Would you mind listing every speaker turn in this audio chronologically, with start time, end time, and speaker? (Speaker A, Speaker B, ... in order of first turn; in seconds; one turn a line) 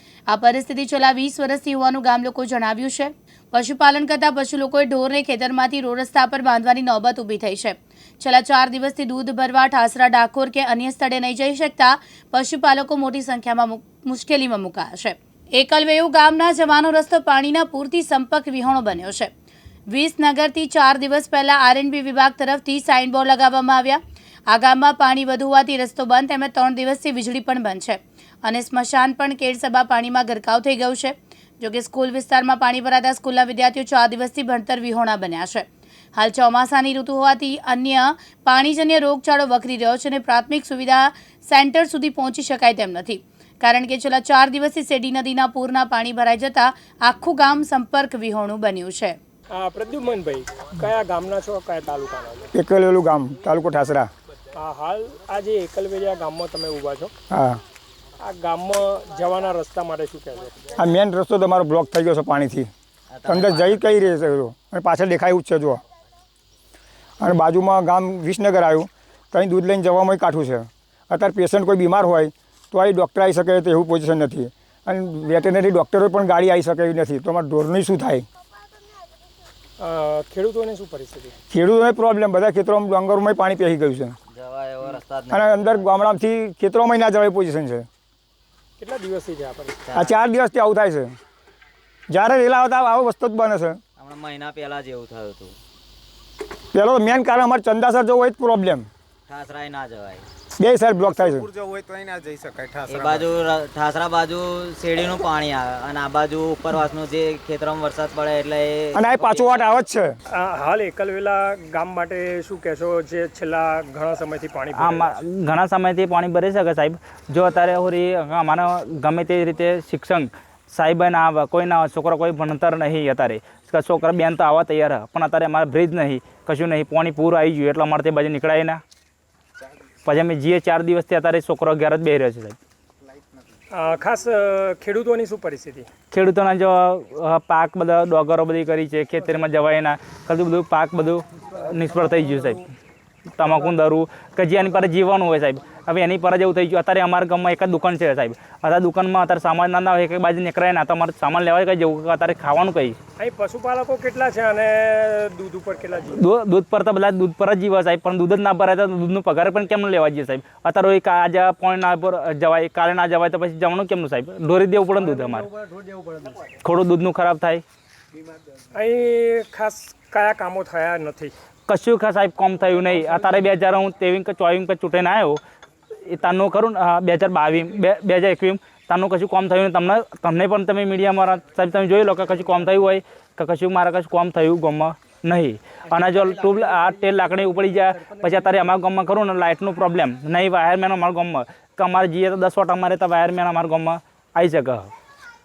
Speaker A: 0.3-19.3
Speaker A: 19.9-49.2
Speaker B: 49.5-52.5
Speaker C: 52.5-54.1
Speaker B: 54.5-57.1
Speaker C: 57.3-57.6
Speaker B: 58.2-60.7
Speaker C: 60.8-62.7
Speaker D: 63.1-64.0
Speaker C: 63.3-65.8
Speaker C: 67.2-78.3
Speaker B: 79.8-81.3
Speaker C: 81.5-84.2
Speaker D: 84.3-85.8
Speaker C: 85.3-87.9
Speaker B: 88.8-89.9
Speaker D: 89.9-90.2
Speaker C: 89.9-91.1
Speaker C: 92.1-93.8
Speaker D: 94.0-95.6
Speaker C: 96.7-98.9
Speaker D: 99.3-100.2
Speaker C: 100.6-101.5
Speaker E: 101.2-103.4
Speaker D: 102.9-109.8
Speaker C: 108.9-110.1
Speaker B: 110.3-115.1
Speaker F: 114.7-128.8
Speaker F: 130.1-132.6
Speaker B: 133.7-135.9
Speaker F: 136.1-142.7
Speaker F: 143.3-153.0
Speaker B: 153.2-156.2
Speaker F: 156.1-165.5
Speaker F: 166.6-167.6
Speaker B: 168.7-171.3
Speaker F: 171.7-175.4
Speaker F: 176.1-194.9